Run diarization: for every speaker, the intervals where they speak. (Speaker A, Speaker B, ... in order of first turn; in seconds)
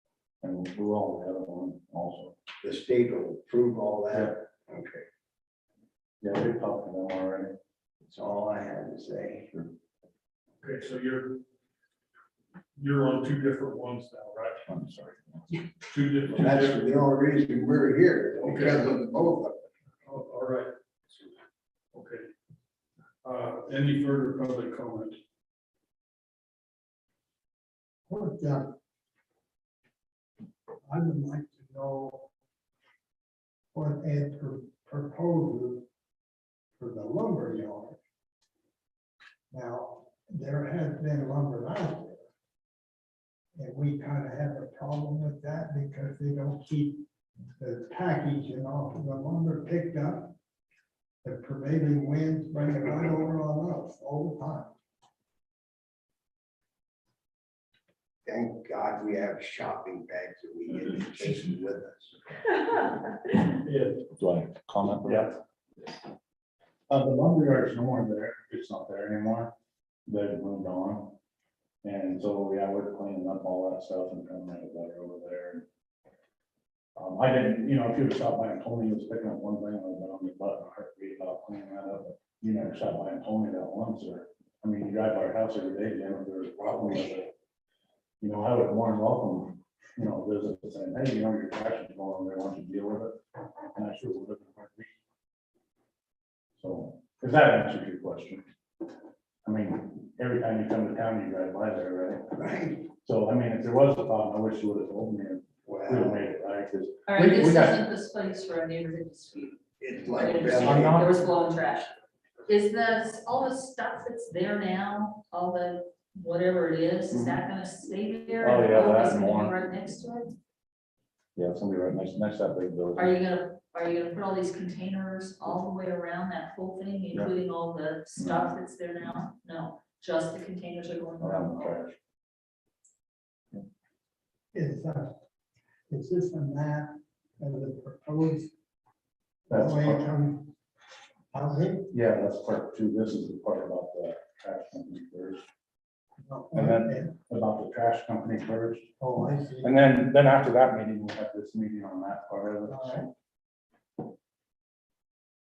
Speaker A: 0.4-2.4, 6.2-7.5, 14.7-15.6, 64.2-65.3, 66.9-69.5, 70.1-71.2, 71.8-75.7, 77.0-87.3, 88.2-93.2, 93.8-94.9, 96.6-98.4, 99.4-102.2, 103.0-107.8, 110.6-111.1, 118.4-119.6, 121.4-123.2, 128.2-128.5, 131.2-132.0, 139.5-140.0, 141.9-145.4, 146.5-148.9, 149.6-153.0
Speaker B: 2.6-5.0, 8.0-9.7, 16.3-19.7, 58.3-62.2, 102.4-102.8, 105.7-106.2, 109.8-111.1
Speaker C: 10.6-11.4, 12.8-14.6, 15.9-16.8, 18.5-18.8, 20.1-20.7, 21.9-22.3, 23.2-25.2, 63.7-64.0
Speaker D: 28.1-28.8, 30.9-32.3, 33.7-35.9, 36.8-38.0, 39.5-42.2, 43.6-47.0, 47.6-50.4, 51.2-54.7, 134.5-135.2, 135.9-138.5, 139.5-140.5, 141.3-141.9, 146.3-147.2, 149.0-149.8, 152.7-153.1
Speaker E: 107.1-109.6, 110.1-111.9, 112.5-120.4, 123.0-131.8